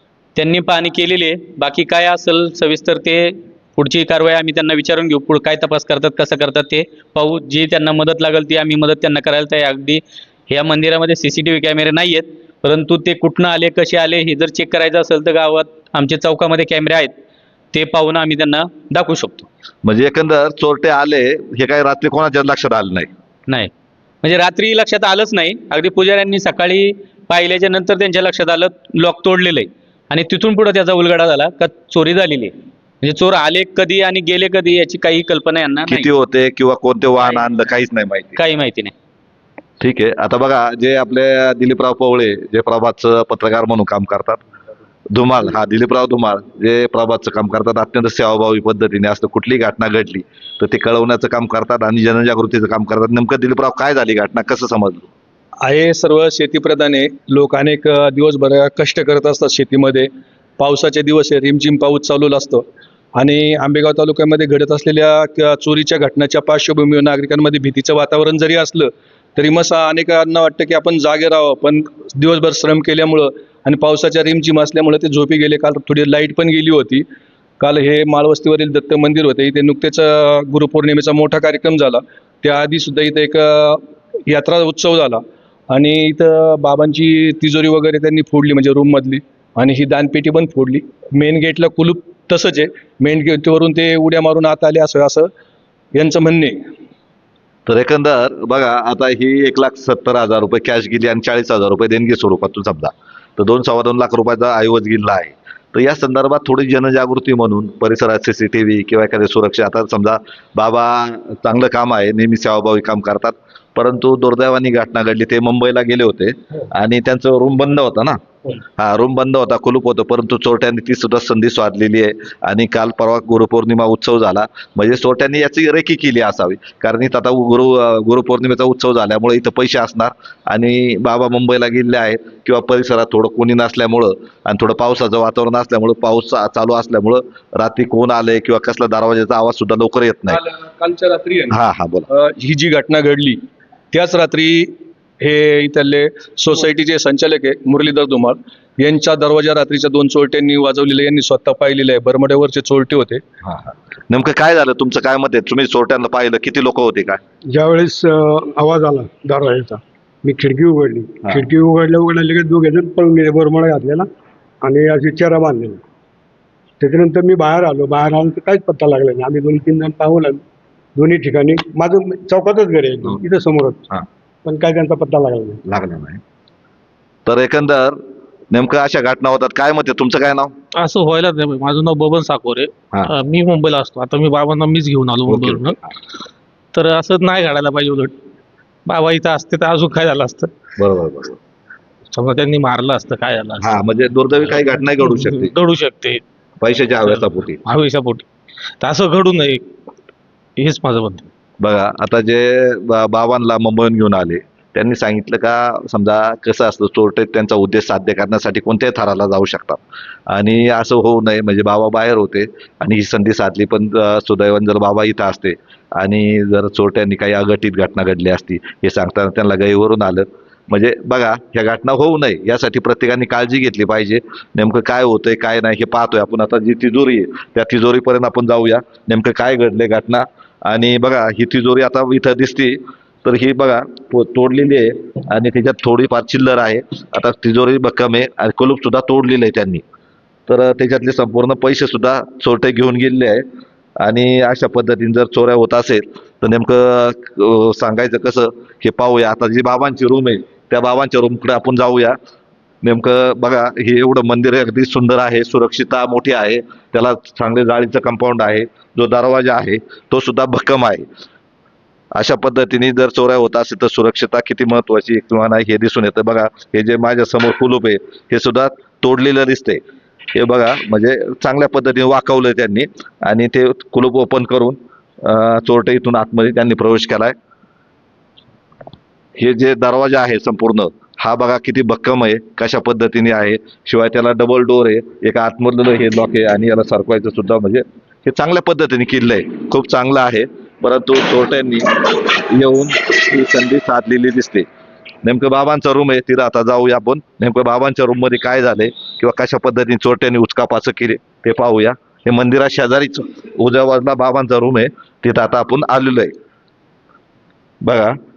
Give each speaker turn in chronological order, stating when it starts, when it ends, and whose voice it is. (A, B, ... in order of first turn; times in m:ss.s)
0:00.4-0:17.1 A
0:17.7-0:19.5 A
0:19.8-0:23.1 B
0:24.2-0:36.1 A
0:35.9-0:38.4 B
0:37.2-0:37.4 A
0:38.4-0:38.9 A
0:39.8-0:44.4 B
0:45.1-0:55.1 B
0:55.6-1:02.6 C
1:03.2-1:17.0 C
1:17.6-1:35.3 C
1:35.9-1:36.6 C
1:37.7-1:58.2 B
1:58.8-2:20.4 B
2:20.3-2:21.6 C
2:21.5-2:22.1 B
2:22.1-2:23.4 C
2:23.9-2:33.2 C
2:33.4-2:37.2 B
2:37.5-2:44.1 D
2:44.6-2:45.8 D
2:46.8-2:50.4 D
2:51.0-2:53.8 D
2:54.4-2:55.6 D
2:55.7-2:56.2 B
2:57.2-3:00.5 B
3:00.8-3:05.8 E
3:05.2-3:05.8 B
3:06.8-3:08.1 E
3:08.9-3:10.5 E
3:10.8-3:11.4 B
3:12.1-3:13.7 E
3:13.6-3:15.5 B
3:15.1-3:16.2 E
3:16.6-3:17.6 B
3:17.7-3:18.2 E
3:18.8-3:19.6 E
3:20.6-3:21.3 E
3:21.6-3:59.8 B
4:00.5-4:03.4 B
4:04.0-4:12.2 B
4:12.8-4:21.1 B
4:22.1-4:29.8 B
4:30.4-4:37.4 B
4:39.4-4:54.6 B
4:55.2-5:06.3 B
5:07.8-5:08.2 B